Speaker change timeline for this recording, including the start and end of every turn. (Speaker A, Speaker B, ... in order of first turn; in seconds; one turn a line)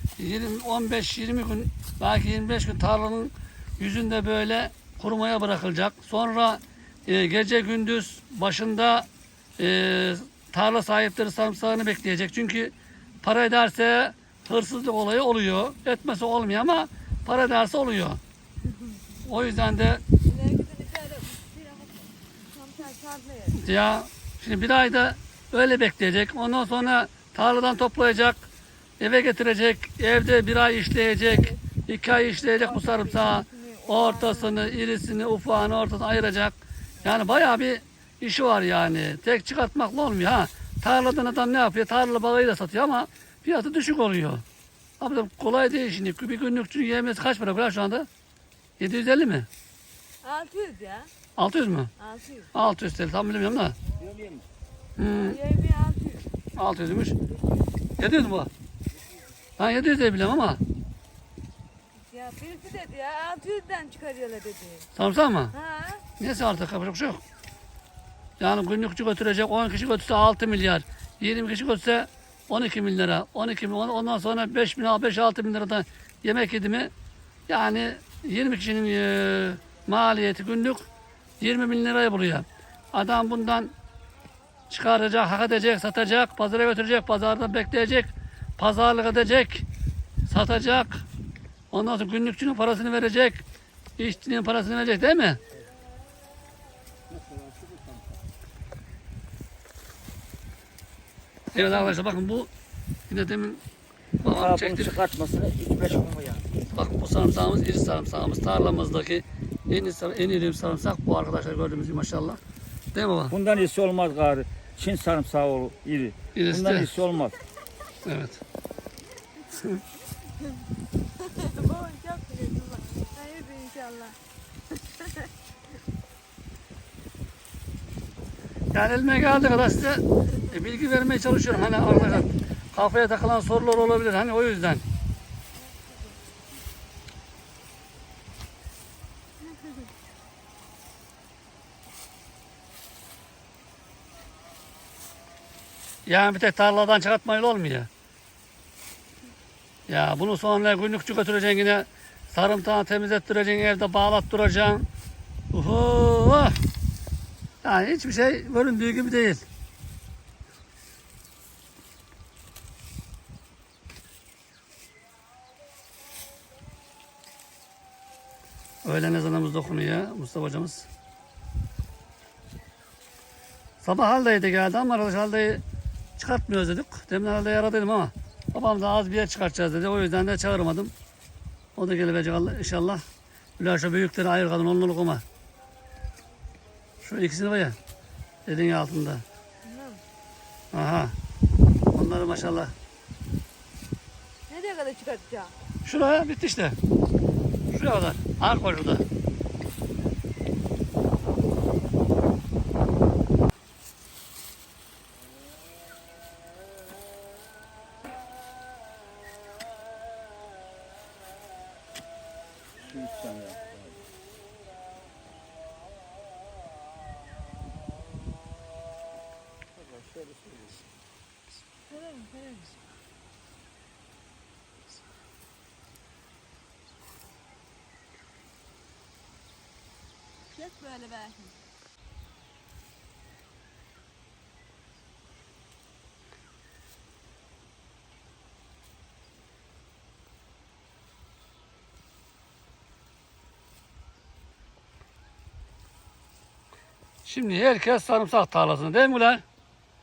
Speaker A: 0.2-18.2
Speaker A: 19.2-20.0
Speaker B: 20.2-23.6
Speaker A: 23.6-28.4
Speaker A: 29.0-44.4
Speaker B: 31.1-34.6
Speaker B: 37.0-37.4
Speaker A: 45.0-48.1
Speaker A: 48.8-49.5
Speaker B: 50.2-51.1
Speaker A: 51.4-51.9
Speaker B: 52.0-52.5
Speaker A: 52.5-53.8
Speaker C: 54.0-54.5
Speaker A: 55.0-55.4
Speaker B: 55.1-56.3
Speaker A: 56.5-57.1
Speaker A: 58.0-58.5
Speaker A: 59.6-60.6
Speaker B: 62.0-64.9
Speaker A: 64.9-65.5
Speaker B: 65.5-66.0
Speaker A: 66.2-67.2
Speaker A: 68.4-76.9
Speaker A: 77.5-80.8
Speaker A: 81.4-83.7
Speaker A: 84.7-89.6
Speaker A: 90.3-91.0
Speaker A: 91.7-93.4
Speaker A: 94.0-95.4
Speaker C: 97.2-97.9
Speaker A: 101.5-102.5
Speaker A: 103.1-103.6
Speaker A: 104.2-105.0
Speaker C: 104.2-106.5
Speaker A: 106.7-112.4
Speaker A: 112.9-113.3
Speaker C: 113.3-117.4
Speaker A: 116.3-116.9
Speaker A: 118.0-118.4
Speaker B: 121.2-124.2
Speaker A: 128.7-134.8
Speaker B: 135.6-136.2
Speaker A: 146.1-147.9
Speaker A: 149.9-154.9
Speaker A: 155.5-156.5
Speaker A: 157.6-159.5
Speaker A: 168.8-170.9
Speaker A: 173.8-175.6
Speaker A: 176.2-180.9
Speaker A: 181.8-183.0
Speaker A: 183.6-185.2
Speaker A: 187.0-187.8
Speaker A: 188.4-189.2
Speaker B: 189.6-190.0
Speaker A: 190.7-191.1
Speaker A: 191.9-192.7
Speaker B: 194.5-195.5
Speaker A: 195.8-196.8
Speaker A: 197.7-199.0
Speaker C: 212.8-214.0
Speaker C: 219.8-220.7
Speaker B: 221.9-222.8
Speaker B: 230.5-231.5
Speaker A: 247.2-249.4